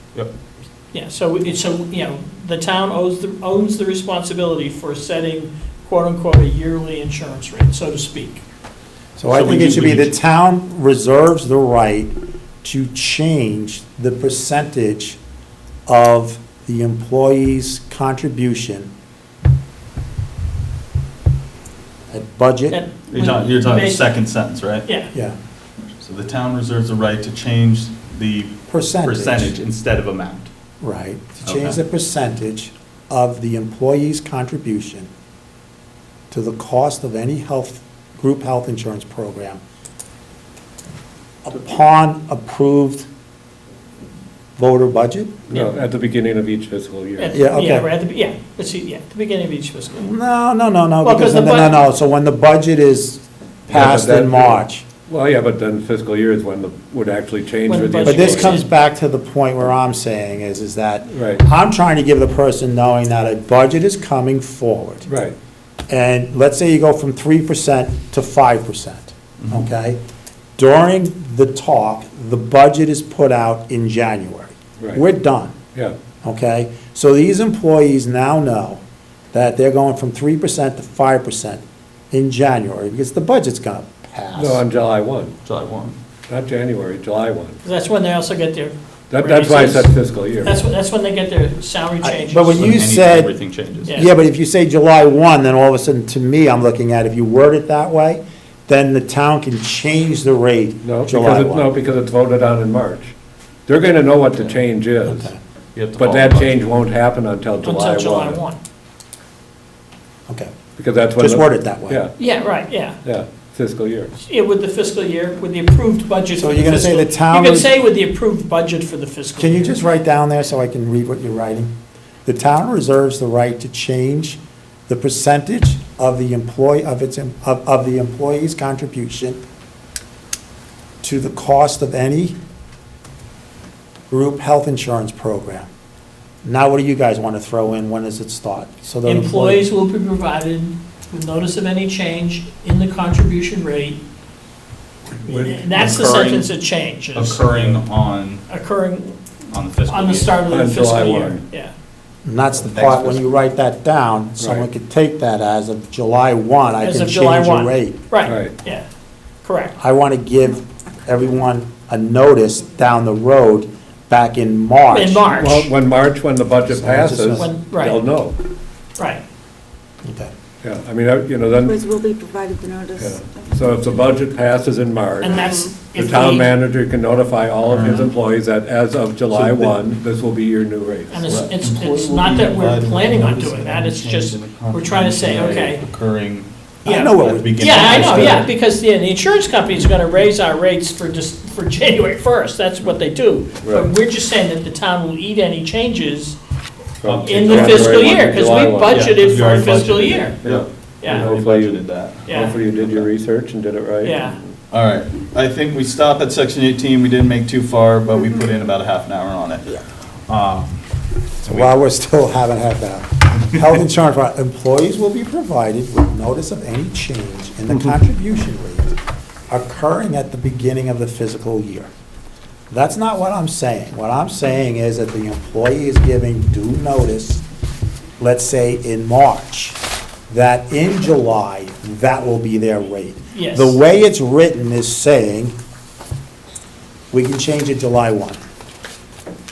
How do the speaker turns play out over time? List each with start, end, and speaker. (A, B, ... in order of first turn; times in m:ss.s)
0:00.9-0:08.4 A
0:09.2-0:15.2 B
0:09.3-0:10.1 C
0:15.9-0:18.9 B
0:22.1-0:22.8 B
0:22.7-0:24.2 A
0:23.1-0:24.9 C
0:24.9-0:25.1 A
0:25.8-0:30.5 C
0:28.7-0:29.5 B
0:30.8-0:35.1 B
0:31.4-0:31.8 C
0:36.3-0:39.6 B
0:41.4-0:43.1 B
0:44.6-0:45.4 B
0:45.5-0:47.4 D
0:47.2-0:50.1 A
0:47.3-0:47.9 B
0:50.0-0:54.8 B
0:51.0-0:51.7 A
0:53.7-0:58.6 D
0:57.7-0:58.7 A
0:58.0-1:05.1 B
1:01.1-1:01.4 D
1:05.1-1:05.4 D
1:05.9-1:10.0 B
1:09.4-1:09.7 C
1:10.6-1:15.6 B
1:16.2-1:18.8 B
1:19.3-1:24.6 B
1:24.3-1:25.4 D
1:25.4-1:26.0 C
1:26.3-1:27.6 D
1:27.6-1:32.8 A
1:29.1-1:30.6 D
1:32.0-1:33.3 B
1:32.5-1:34.0 C
1:33.9-1:41.7 B
1:40.8-1:43.1 D
1:43.7-1:45.3 D
1:45.1-1:45.4 B
1:45.8-1:46.6 C
1:45.9-1:48.4 D
1:47.6-1:48.6 A
1:50.8-1:52.1 D
1:51.2-1:52.0 B
1:52.2-1:53.0 A
1:53.0-1:54.1 D
1:54.2-1:59.8 A
1:56.4-1:57.7 B
1:59.4-2:01.7 B
2:02.2-2:09.4 B
2:11.0-2:12.4 B
2:14.1-2:15.7 B
2:16.4-2:19.6 B
2:19.0-2:24.0 A
2:25.2-2:26.5 C
2:25.3-2:27.5 A
2:27.2-2:28.4 C
2:28.5-2:29.2 A
2:29.5-2:30.3 C
2:29.9-2:31.7 A
2:30.5-2:31.4 D
2:32.2-2:38.0 B
2:32.5-2:33.4 C
2:34.4-2:34.6 D
2:36.8-2:38.8 A
2:38.2-2:38.5 D
2:39.4-2:39.8 A
2:39.8-2:45.3 B
2:44.9-2:45.7 A
2:45.3-2:48.4 D
2:46.7-2:47.5 B
2:47.4-2:48.0 A
2:50.0-2:50.3 B
2:50.6-2:51.8 D
2:51.6-2:54.1 E
2:53.0-3:01.3 D
2:55.2-2:56.5 A
2:55.2-2:55.8 E
2:57.7-2:58.1 C
2:59.3-2:59.8 C
3:01.1-3:05.8 A
3:01.2-3:08.5 C
3:06.8-3:08.5 B
3:06.8-3:16.4 A
3:13.6-3:13.9 D
3:17.0-3:19.2 D
3:17.0-3:18.2 C
3:17.2-3:20.4 A
3:18.9-3:23.1 C
3:20.4-3:24.4 D
3:21.0-3:21.3 A
3:22.3-3:22.6 A
3:24.0-3:24.4 A
3:24.7-3:30.8 C
3:31.4-3:31.8 C
3:31.5-3:38.9 B
3:33.3-3:33.8 C
3:39.5-3:41.9 B
3:42.7-3:47.4 B
3:48.2-3:49.8 B
3:50.3-3:55.6 B
3:53.3-3:53.8 A
3:57.1-3:58.4 B